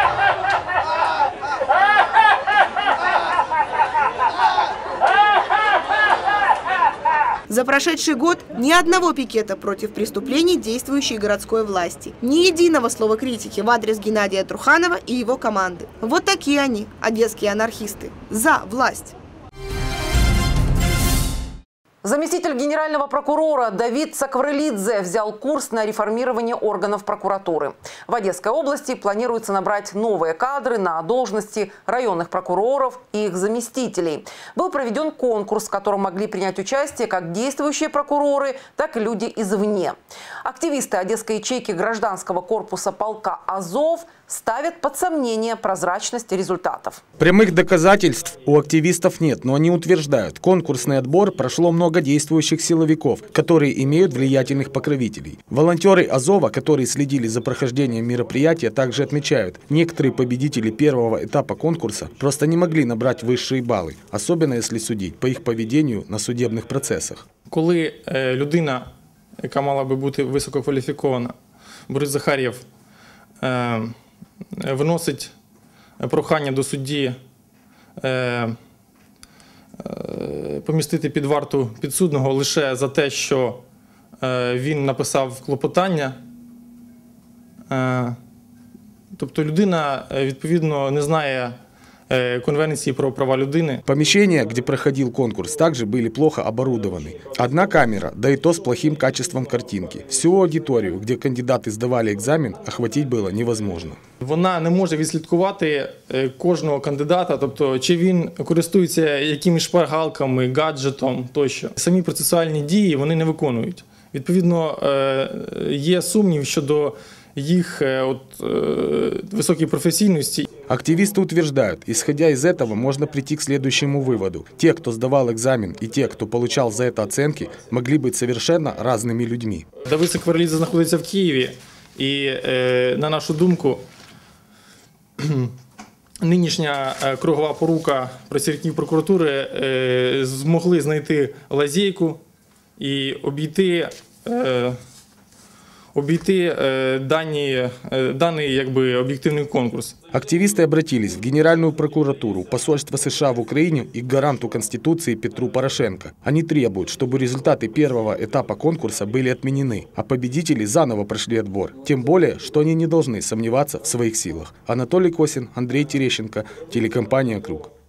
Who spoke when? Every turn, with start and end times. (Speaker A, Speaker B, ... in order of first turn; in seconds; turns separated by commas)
Speaker A: 7.5-19.1, Speaker B: 22.0-47.0, Speaker C: 47.2-67.2, Speaker D: 67.5-68.9, Speaker D: 69.4-71.3, Speaker D: 71.9-72.7, Speaker D: 73.4-74.0, Speaker D: 74.6-75.3, Speaker D: 76.0-77.2, Speaker D: 78.0-78.6, Speaker D: 79.8-83.6, Speaker D: 84.2-86.2, Speaker D: 87.7-88.2, Speaker D: 89.2-91.6, Speaker D: 92.1-93.8, Speaker C: 93.9-104.0, Speaker D: 104.2-120.5, Speaker C: 120.7-129.7, Speaker D: 129.9-133.8, Speaker D: 135.2-135.5, Speaker D: 136.2-142.2, Speaker D: 142.8-144.8, Speaker D: 145.9-149.9, Speaker C: 150.1-167.7